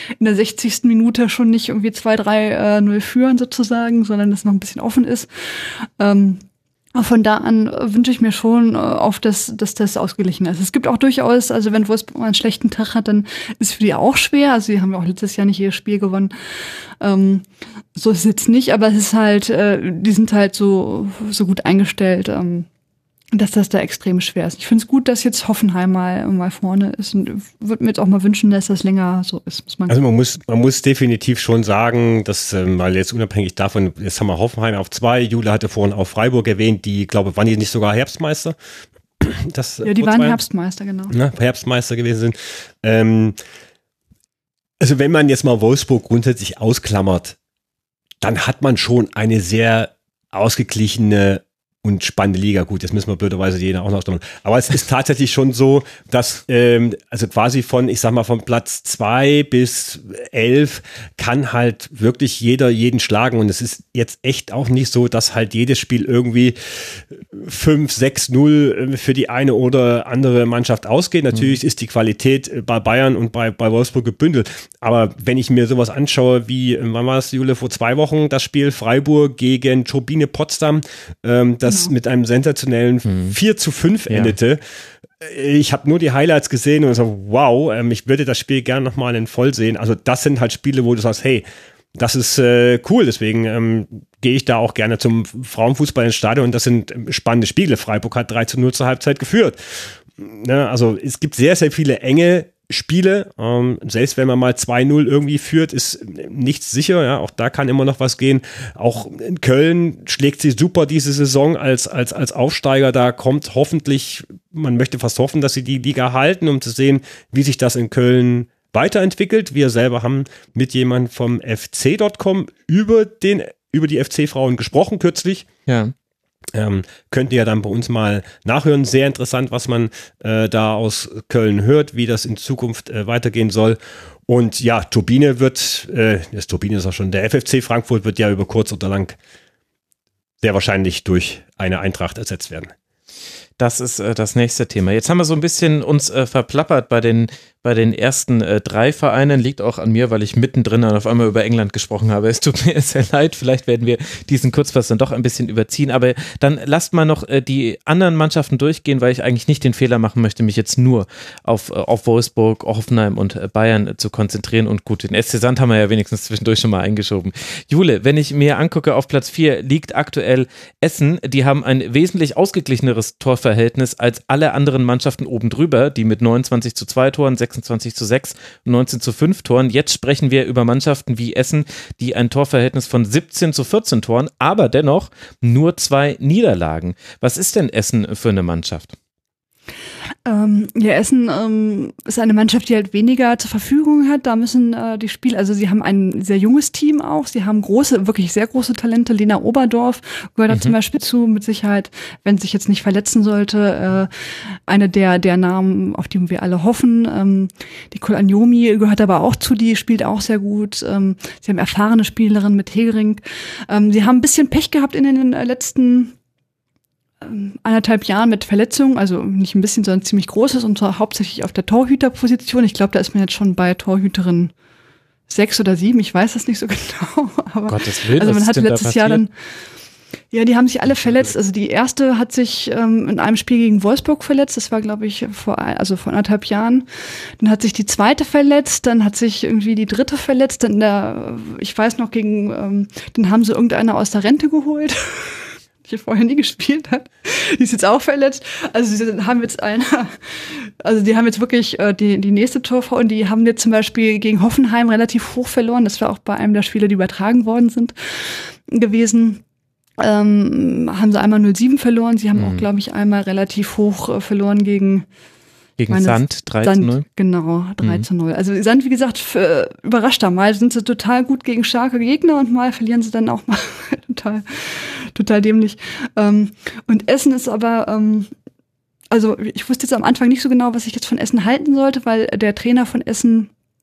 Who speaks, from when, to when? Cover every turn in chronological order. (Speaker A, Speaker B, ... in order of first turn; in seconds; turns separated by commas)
Speaker A: 0.2-6.4, Speaker A: 6.9-22.7, Speaker A: 23.3-30.0, Speaker B: 29.9-38.6, Speaker B: 39.2-40.4, Speaker A: 39.8-41.1, Speaker B: 41.1-43.4, Speaker B: 44.8-47.4, Speaker B: 48.2-84.6, Speaker A: 81.7-81.9, Speaker C: 83.1-83.3, Speaker C: 84.1-84.4, Speaker B: 85.2-125.5, Speaker C: 125.7-125.9, Speaker B: 126.5-139.2, Speaker B: 140.4-142.7, Speaker C: 143.6-188.9, Speaker A: 190.3-216.1, Speaker A: 217.2-224.5, Speaker A: 225.3-229.3, Speaker C: 227.7-229.2, Speaker A: 230.3-236.9, Speaker A: 237.4-259.4, Speaker A: 260.0-265.1, Speaker C: 262.4-262.6, Speaker C: 265.8-267.1, Speaker A: 265.9-278.3, Speaker A: 279.1-283.5